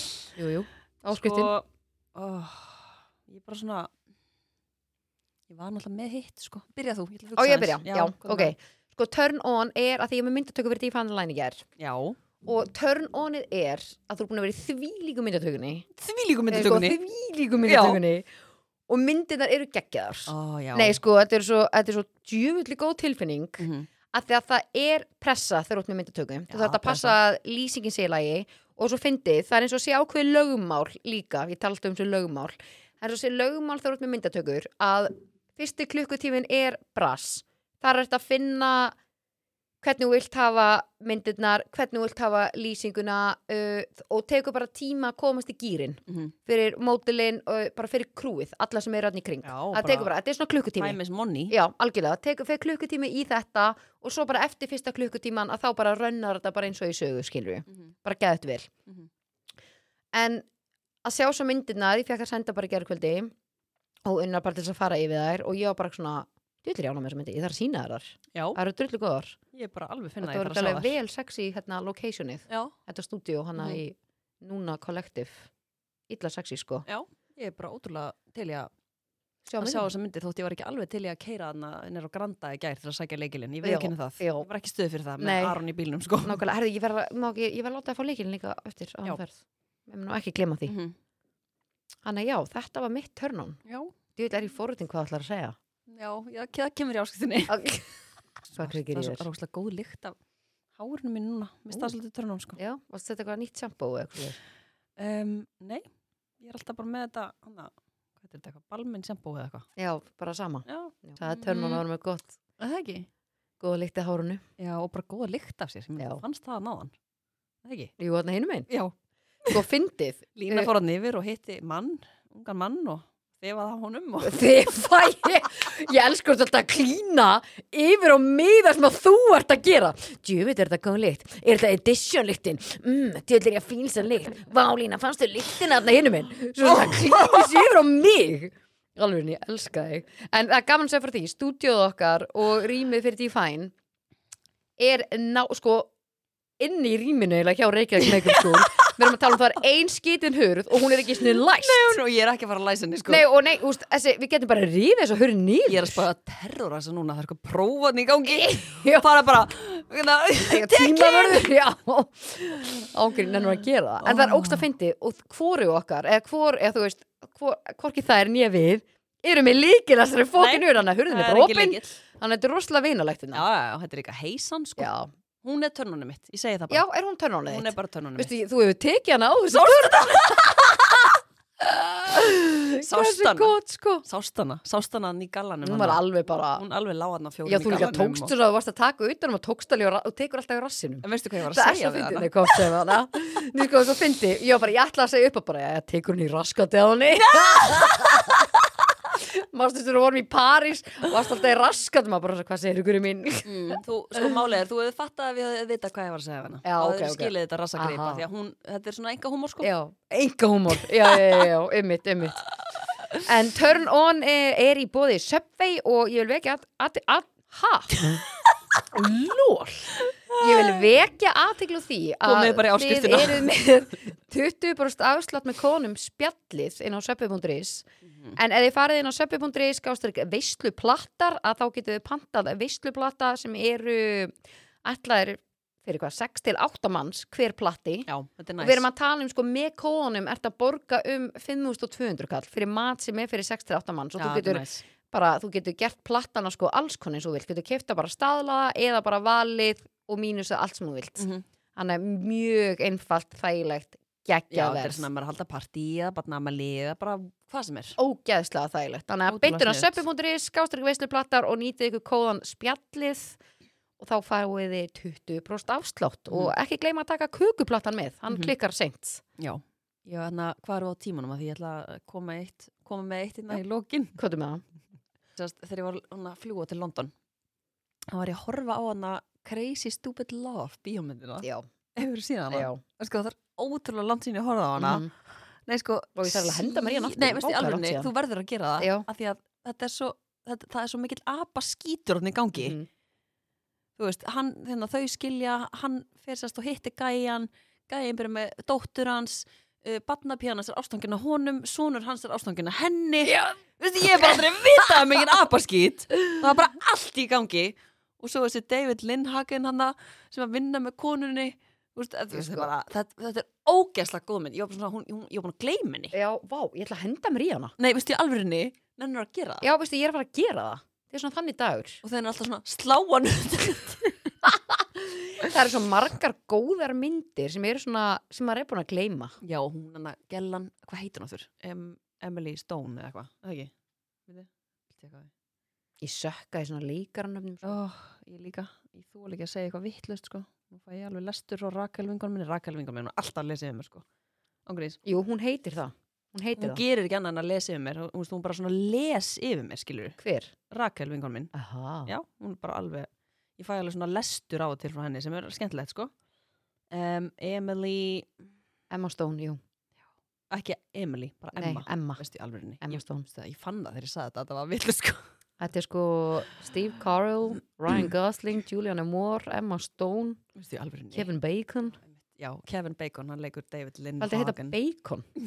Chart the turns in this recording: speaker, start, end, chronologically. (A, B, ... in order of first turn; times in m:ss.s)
0:00.4-0:01.5 A
0:01.1-0:03.9 B
0:05.5-0:08.5 B
0:07.4-0:11.6 A
0:11.8-0:12.2 B
0:12.4-0:15.9 A
0:16.0-0:17.0 B
0:16.5-0:18.3 A
0:17.6-0:18.0 B
0:18.9-0:39.0 A
0:20.3-0:21.0 B
0:23.6-0:23.9 B
0:26.5-0:27.2 B
0:39.8-0:51.0 A
0:49.4-0:50.1 B
0:50.8-0:51.6 B
0:51.5-0:58.7 A
1:00.1-1:00.4 A
1:01.0-1:03.3 A
1:04.0-1:09.4 A
1:08.3-1:08.6 B
1:09.5-1:11.0 B
1:10.2-1:15.5 A
1:12.5-1:12.7 B
1:13.6-1:13.8 B
1:16.1-1:16.8 A
1:16.8-1:18.7 B
1:19.4-1:19.9 A
1:19.6-1:26.4 B
1:23.6-1:24.5 A
1:25.2-1:25.6 A
1:26.2-1:30.7 A
1:30.6-1:31.0 B
1:32.0-1:33.6 A
1:33.6-1:33.9 B
1:34.2-1:35.6 A
1:35.9-1:37.5 B
1:37.5-1:37.9 A
1:38.5-1:39.2 A
1:38.6-1:40.2 B
1:40.7-1:42.6 B
1:42.6-1:44.4 A
1:45.0-1:45.8 B
1:46.4-1:49.7 B
1:49.8-1:52.4 A
1:50.6-1:51.8 B
1:52.6-1:53.1 B
1:53.6-1:54.4 A
1:54.6-1:56.9 B
1:56.0-1:56.2 A
1:57.6-1:57.9 B
1:58.0-1:58.7 A
1:58.7-1:58.9 B
1:59.5-2:00.7 A
2:00.4-2:04.5 B
2:04.2-2:23.7 A
2:16.6-2:17.4 B
2:24.8-2:25.9 A
2:26.6-2:32.0 A
2:28.1-2:29.2 B
2:31.2-2:33.2 B
2:33.1-2:36.0 A
2:35.6-2:41.5 B
2:38.2-2:39.1 A
2:40.4-2:53.4 A
2:44.0-2:44.6 B
2:50.3-2:52.0 B
2:53.3-2:54.9 B
2:54.8-2:55.1 A
2:55.4-2:56.8 B
2:56.7-3:01.1 A
2:57.5-2:58.3 B
2:59.5-3:00.4 B
3:01.6-3:04.0 A
3:02.8-3:06.0 B
3:05.6-3:06.6 A
3:06.5-3:08.3 B
3:07.4-3:18.5 A
3:11.0-3:12.7 B
3:19.1-3:23.8 A
3:23.4-3:29.7 B
3:26.6-3:28.2 A
3:29.6-3:32.4 A
3:31.1-3:31.4 B
3:33.2-3:38.1 A
3:38.9-3:54.3 A
3:40.1-3:40.8 B
3:42.2-3:43.5 B
3:48.1-3:48.4 B
3:54.8-3:58.1 A
3:58.1-3:58.9 B
3:58.6-4:15.0 A
4:04.2-4:04.8 B
4:11.2-4:11.4 B
4:14.5-4:18.0 B
4:18.0-4:23.4 A
4:19.3-4:20.0 B
4:24.0-4:29.2 A
4:29.4-4:34.2 B
4:34.2-4:34.6 A
4:35.4-4:37.1 B
4:38.1-4:45.1 B
4:42.5-4:42.8 A
4:44.8-4:45.1 A
4:45.7-4:52.8 B
4:46.2-4:48.1 A
4:48.8-4:49.0 A
4:52.6-4:52.9 A
4:54.0-5:16.1 B
5:03.2-5:03.6 A
5:12.3-5:12.7 A
5:16.1-5:17.7 A
5:17.8-5:19.6 B
5:19.6-5:22.0 A
5:22.0-5:24.3 B
5:25.0-5:29.4 A
5:29.4-5:33.7 B
5:34.3-5:35.3 B
5:36.0-5:37.8 A
5:37.6-5:44.0 B
5:44.6-5:45.0 B
5:45.0-5:46.8 A
5:46.6-5:50.2 B
5:50.2-5:50.5 A
5:50.7-5:51.5 B
5:51.5-5:52.1 A
5:52.1-5:56.1 B
5:56.9-5:58.3 B
5:58.9-5:59.6 A
6:00.5-6:05.2 B
6:01.6-6:02.2 A
6:02.8-6:03.2 A
6:05.6-6:10.4 A
6:10.5-6:11.3 B
6:11.1-6:12.0 A
6:12.0-6:14.8 B
6:14.2-6:15.2 A